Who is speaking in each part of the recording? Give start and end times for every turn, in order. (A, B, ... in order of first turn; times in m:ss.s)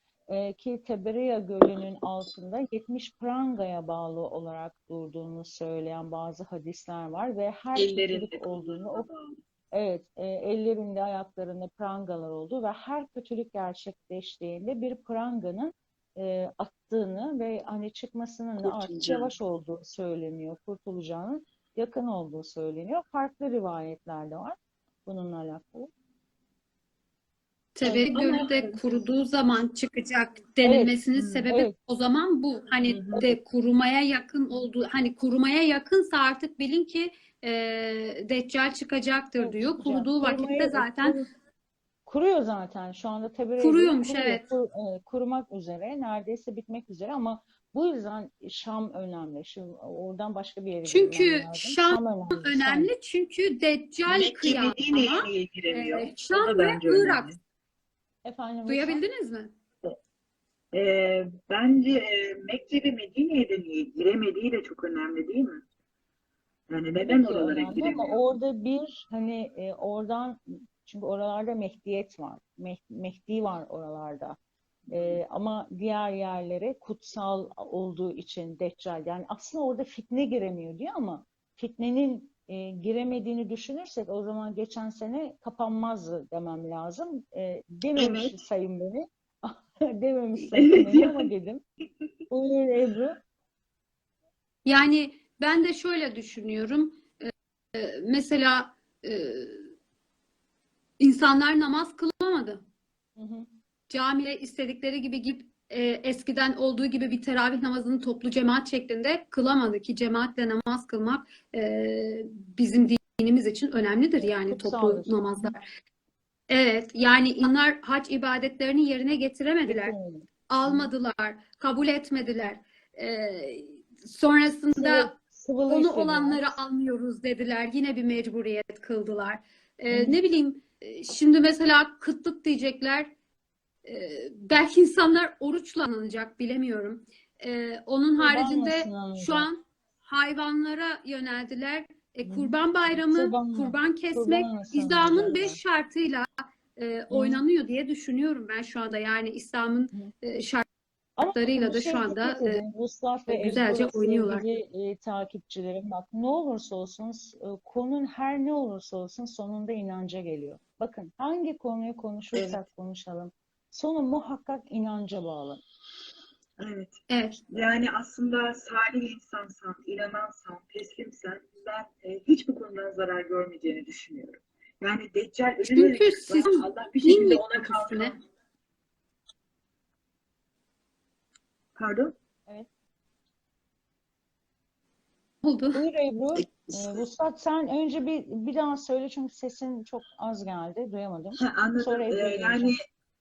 0:00.3-0:09.1 A
0:07.7-0:09.4 B
0:09.7-0:25.9 A
0:18.6-0:19.3 B
0:27.7-0:41.2 C
0:27.8-0:28.8 B
0:30.6-0:31.7 A
0:31.1-0:31.5 B
0:32.8-0:33.2 B
0:39.4-0:41.3 A
0:42.0-0:52.9 A
0:43.6-0:44.4 C
0:50.8-0:57.3 C
0:54.1-0:57.4 B
0:58.2-0:59.0 A
0:58.7-0:59.5 C
1:00.7-1:05.6 B
1:06.7-1:08.2 B
1:07.0-1:14.4 A
1:14.9-1:15.2 B
1:14.9-1:31.6 A
1:28.0-1:28.4 B
1:30.5-1:31.3 B
1:32.3-1:33.2 A
1:34.6-1:39.6 C
1:41.0-1:42.6 C
1:43.2-1:43.5 A
1:43.9-1:55.7 C
1:54.2-1:55.5 A
1:56.5-2:00.0 C
1:59.6-2:00.9 A
2:00.5-2:05.1 C
2:04.8-2:06.6 A
2:05.7-2:13.1 C
2:09.9-2:10.2 A
2:13.8-2:30.6 C
2:18.2-2:19.5 A
2:22.2-2:25.6 A
2:27.1-2:27.4 A
2:31.2-2:45.6 A
2:31.3-2:32.6 C
2:33.3-2:34.4 C
2:42.3-2:42.6 B
2:46.6-2:58.2 B
2:47.1-2:47.4 C
2:55.7-2:58.1 C
3:01.8-3:02.1 B
3:05.4-3:05.8 C
3:05.7-3:12.7 A
3:06.4-3:07.0 B
3:11.4-3:12.8 B